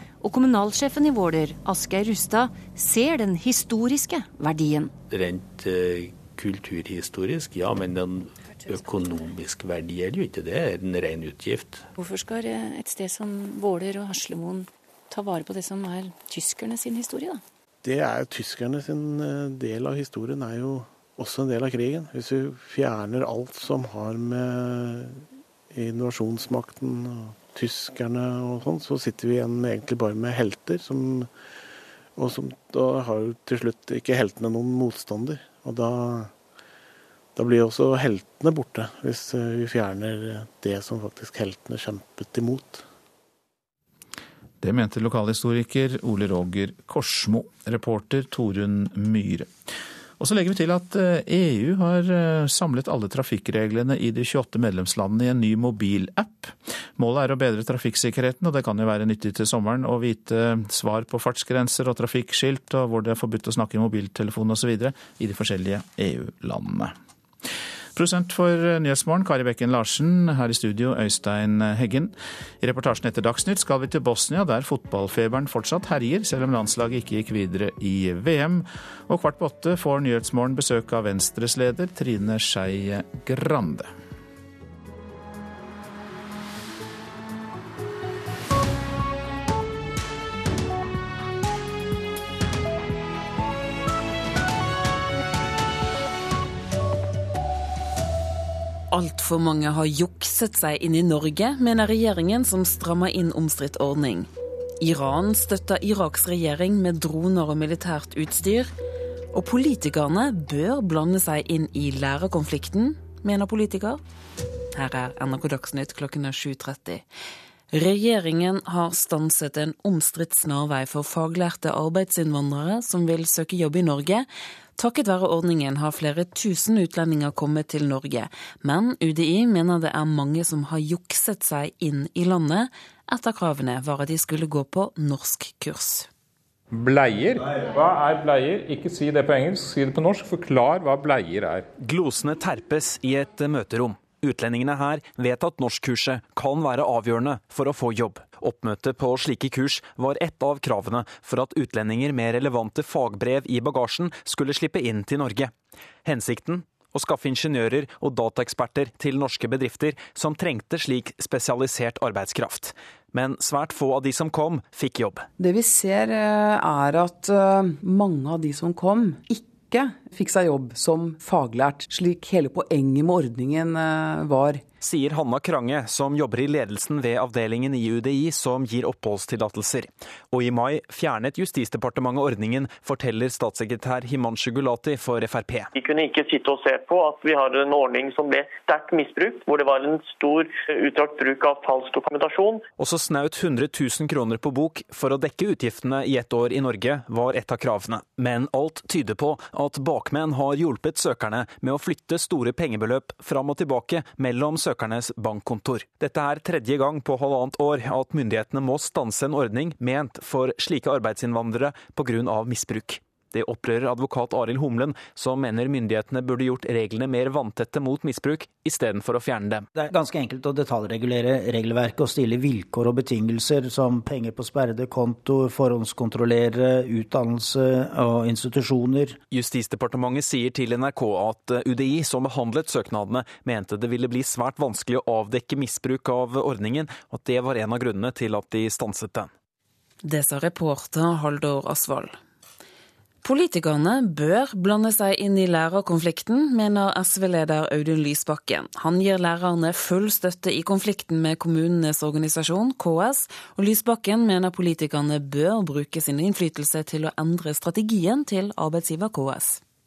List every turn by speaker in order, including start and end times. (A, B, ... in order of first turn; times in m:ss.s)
0:00.2-0:04.9 A
0:05.1-0:11.8 B
0:12.0-0:17.4 A
0:17.8-0:31.3 C
0:32.2-0:36.3 C
0:37.4-0:42.8 C
0:44.6-0:49.5 D
0:50.2-1:06.9 D
1:08.0-1:23.9 D
1:38.9-1:44.3 E
1:44.8-1:48.7 E
1:49.3-1:54.0 E
1:54.8-1:57.1 E
1:57.7-2:16.1 E
2:16.7-2:21.7 F
2:21.8-2:35.5 G
2:36.0-2:45.3 G
2:45.4-2:54.6 H
2:54.8-3:05.7 G
3:05.8-3:12.6 I
3:12.8-3:39.7 G
3:39.8-3:49.2 J
3:49.3-3:59.3 G
4:00.0-4:02.2 E
4:03.2-4:19.6 E